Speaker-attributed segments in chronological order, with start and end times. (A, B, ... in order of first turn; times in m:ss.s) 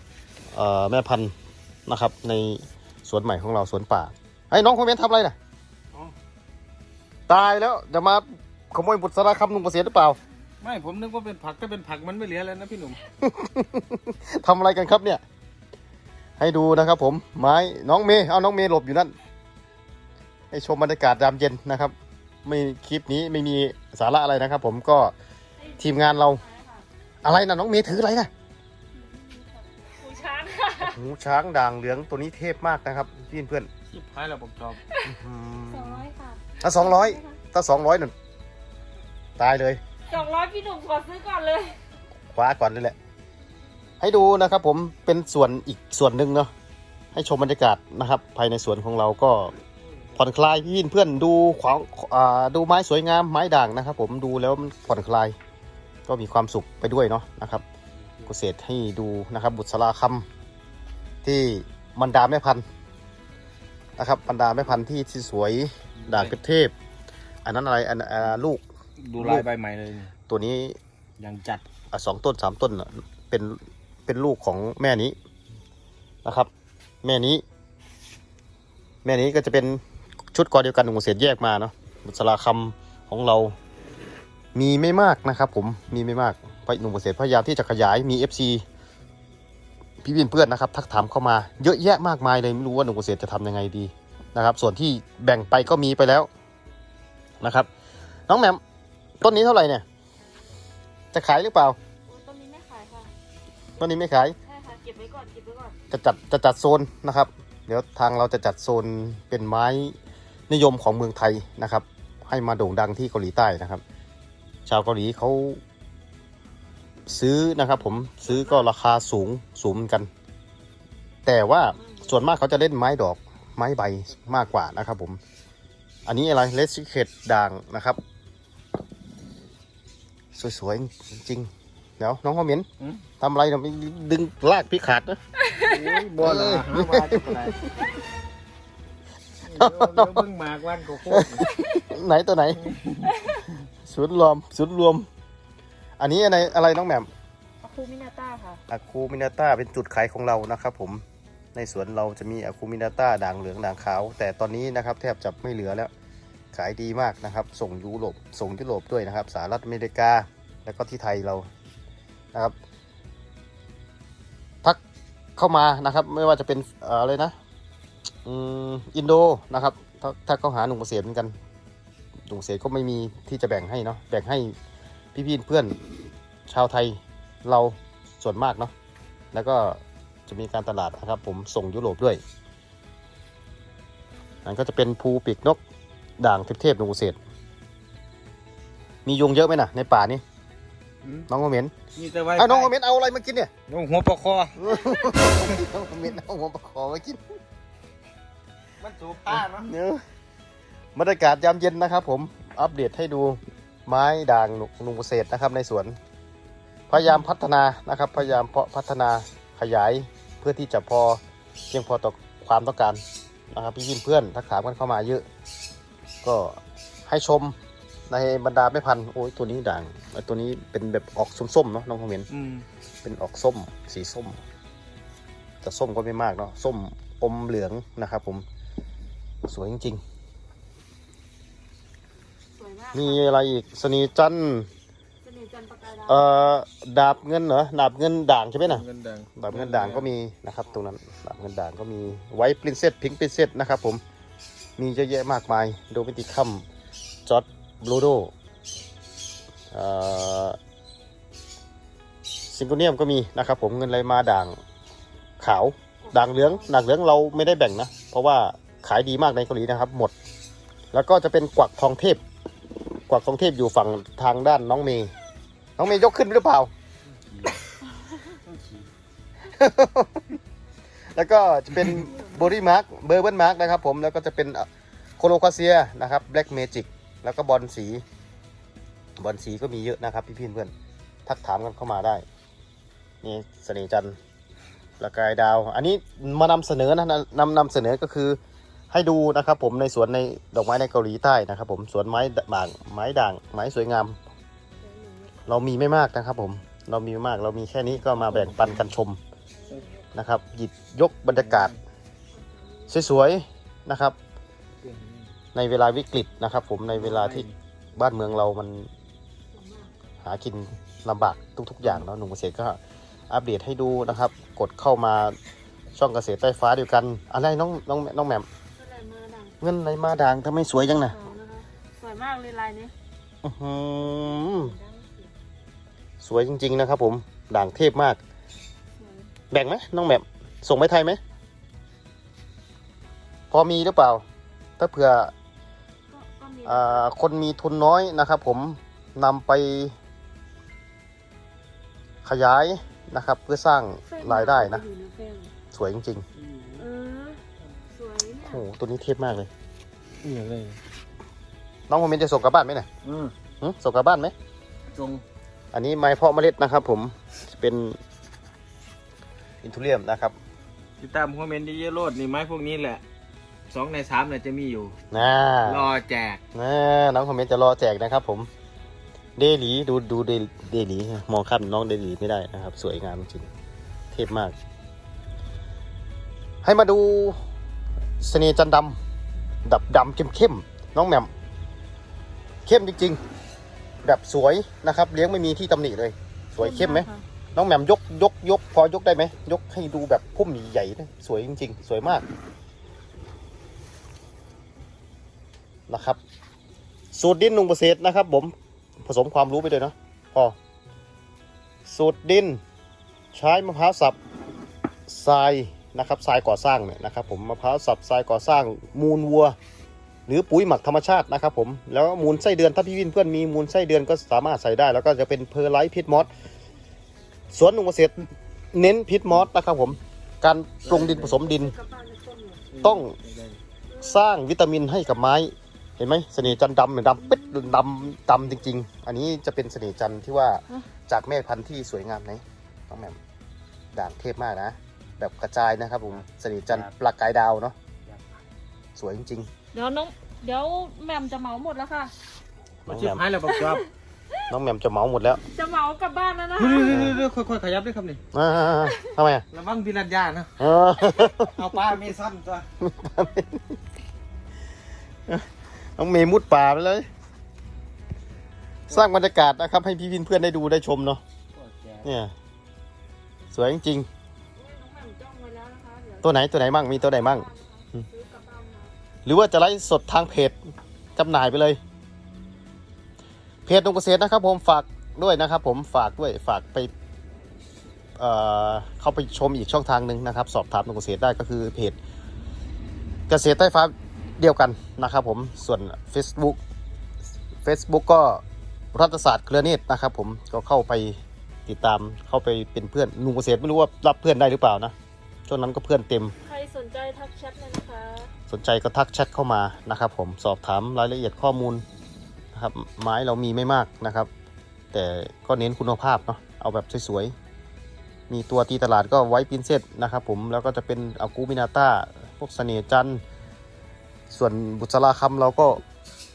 0:00.5-0:01.3 A
0:01.8-0:05.4 A
0:07.3-0:10.2 A
0:10.6-0:13.0 B
0:13.2-0:15.2 A
0:16.4-0:19.1 A
0:20.5-0:21.9 A
0:22.4-0:25.1 A
0:25.6-0:26.8 C
0:25.8-0:26.4 A
0:27.2-0:28.3 A
0:28.9-0:31.0 C
0:30.8-0:33.7 A
0:33.9-0:34.8 B
0:34.9-0:35.1 C
0:35.0-0:36.0 A
0:35.7-0:37.4 C
0:36.6-0:38.1 A
0:39.4-0:39.8 A
0:40.1-0:41.8 C
0:42.3-0:43.0 A
0:44.0-0:46.5 A
0:47.1-0:49.5 A
0:50.2-0:55.3 A
0:56.1-0:57.6 A
0:58.0-0:58.3 B
0:58.2-1:00.2 A
1:01.2-1:02.6 A
1:04.0-1:06.7 A
1:06.0-1:06.4 B
1:07.4-1:08.6 A
1:09.0-1:10.1 B
1:09.2-1:09.4 A
1:10.3-1:10.8 A
1:11.2-1:11.6 B
1:11.9-1:15.1 A
1:17.0-1:17.4 A
1:19.0-1:19.8 A
1:20.3-1:23.5 A
1:24.6-1:28.6 A
1:30.0-1:36.3 A
1:37.4-1:37.7 A
1:38.3-1:38.6 A
1:39.2-1:39.8 A
1:41.1-1:41.8 A
1:42.0-1:43.1 C
1:43.8-1:44.4 A
1:44.4-1:45.8 C
1:45.9-1:50.0 A
1:50.5-1:53.8 A
1:54.6-1:55.6 A
1:57.1-2:00.1 A
1:58.0-1:58.6 C
2:01.2-2:05.2 A
2:01.8-2:02.2 C
2:06.0-2:08.0 A
2:10.3-2:12.7 A
2:13.2-2:15.2 A
2:15.6-2:17.6 B
2:16.2-2:17.3 A
2:19.5-2:21.4 B
2:19.6-2:20.2 A
2:21.1-2:22.6 A
2:22.6-2:23.1 B
2:23.8-2:25.1 A
2:26.0-2:27.1 A
2:27.6-2:28.6 C
2:28.7-2:31.0 A
2:31.6-2:35.9 A
2:36.5-2:41.5 A
2:45.4-2:47.4 A
2:48.2-2:51.3 A
2:52.3-2:54.5 A
2:55.1-2:55.8 A
2:56.5-2:58.7 A
2:59.3-3:02.2 A
3:04.4-3:05.6 A
3:06.2-3:07.2 A
3:09.0-3:10.2 A
3:11.3-3:11.7 A
3:11.9-3:12.7 B
3:12.4-3:13.5 A
3:13.7-3:14.7 B
3:14.6-3:17.2 A
3:15.3-3:15.6 B
3:18.8-3:19.7 B
3:19.3-3:20.0 A
3:20.9-3:26.0 A
3:26.9-3:33.0 A
3:33.5-3:35.2 A
3:36.2-3:37.5 A
3:38.1-3:42.3 A
3:42.3-3:42.6 B
3:43.0-3:44.4 A
3:45.6-3:48.4 A
3:49.4-3:50.0 A
3:52.5-3:53.2 C
3:52.9-3:54.7 A
3:55.2-3:56.2 C
3:56.0-4:04.0 A
3:58.6-4:00.1 B
4:04.8-4:06.6 A
4:07.2-4:08.3 A
4:09.7-4:10.6 A
4:12.5-4:14.6 A
4:15.4-4:20.1 A
4:16.0-4:16.7 C
4:20.9-4:22.2 A
4:23.1-4:25.1 A
4:25.8-4:26.7 A
4:27.1-4:27.6 B
4:28.2-4:28.9 B
4:29.5-4:30.3 A
4:31.1-4:34.7 A
4:35.2-4:38.0 A
4:39.2-4:40.7 A
4:41.2-4:42.2 A
4:43.2-4:44.2 A
4:45.0-4:48.4 A
4:48.9-4:54.2 A
4:54.8-4:55.5 C
4:55.4-4:59.2 A
4:58.1-4:58.8 B
5:00.1-5:01.7 A
5:01.3-5:01.8 B
5:02.9-5:04.2 A
5:04.8-5:05.3 B
5:05.5-5:08.9 A
5:06.9-5:07.5 B
5:09.5-5:09.9 C
5:10.2-5:12.8 A
5:13.3-5:15.4 A
5:15.9-5:18.5 A
5:18.8-5:19.6 C
5:19.6-5:21.2 A
5:20.9-5:22.9 C
5:23.4-5:24.8 A
5:24.1-5:25.3 C
5:26.2-5:28.2 A
5:29.0-5:29.3 C
5:29.5-5:31.2 A
5:33.5-5:34.2 A
5:34.8-5:35.3 A
5:36.1-5:37.1 C
5:36.6-5:39.9 A
5:42.2-5:44.8 A
5:44.1-5:45.5 C
5:45.7-5:46.2 A
5:46.4-5:46.9 B
5:46.8-5:48.6 C
5:48.4-5:49.5 A
5:50.2-5:50.8 B
5:51.9-5:52.9 A
5:53.0-5:53.3 B
5:53.6-5:54.3 A
5:54.9-5:55.2 B
5:55.7-5:58.0 A
5:59.6-6:00.4 A
6:01.0-6:03.0 B
6:03.7-6:05.0 B
6:05.1-6:05.9 A
6:05.6-6:06.4 B
6:06.5-6:08.5 A
6:09.4-6:13.5 A
6:14.1-6:14.5 A
6:16.6-6:17.4 A
6:18.2-6:19.0 A
6:19.6-6:21.3 A
6:22.6-6:23.2 A
6:24.0-6:32.2 A
6:26.6-6:27.2 C
6:35.9-6:36.2 A
6:37.1-6:40.6 A
6:41.8-6:42.6 A
6:43.3-6:44.2 A
6:45.1-6:49.5 A
6:50.3-6:56.3 A
6:57.5-6:58.1 A
6:58.7-7:01.7 A
7:00.8-7:01.4 B
7:00.9-7:02.6 C
7:02.7-7:03.6 B
7:02.8-7:03.2 A
7:03.9-7:04.3 C
7:04.0-7:13.2 A
7:13.9-7:17.8 A
7:19.0-7:19.5 A
7:19.7-7:22.1 C
7:22.8-7:23.2 A
7:22.9-7:23.8 B
7:23.4-7:23.9 C
7:24.5-7:25.4 A
7:25.4-7:27.1 C
7:26.6-7:28.2 B
7:26.9-7:27.2 A
7:28.3-7:29.4 A
7:28.8-7:29.1 C
7:29.5-7:30.5 B
7:30.6-7:31.5 A
7:31.4-7:32.7 B
7:32.8-7:33.6 A
7:35.3-7:37.1 A
7:38.9-7:41.2 A
7:41.5-7:42.1 B
7:42.0-7:42.3 A
7:43.5-7:44.1 A
7:44.6-7:46.3 C
7:46.2-7:47.5 A
7:47.1-7:48.9 C
7:49.2-7:50.6 A
7:51.2-7:51.8 A
7:53.7-7:56.9 A
7:58.2-8:02.0 A
8:03.3-8:06.6 A
8:07.6-8:08.4 A
8:08.9-8:14.9 A
8:15.5-8:16.3 A
8:16.4-8:18.3 C
8:18.5-8:21.8 A
8:22.5-8:24.3 A
8:24.9-8:27.3 A
8:28.3-8:33.2 A
8:34.3-8:35.8 A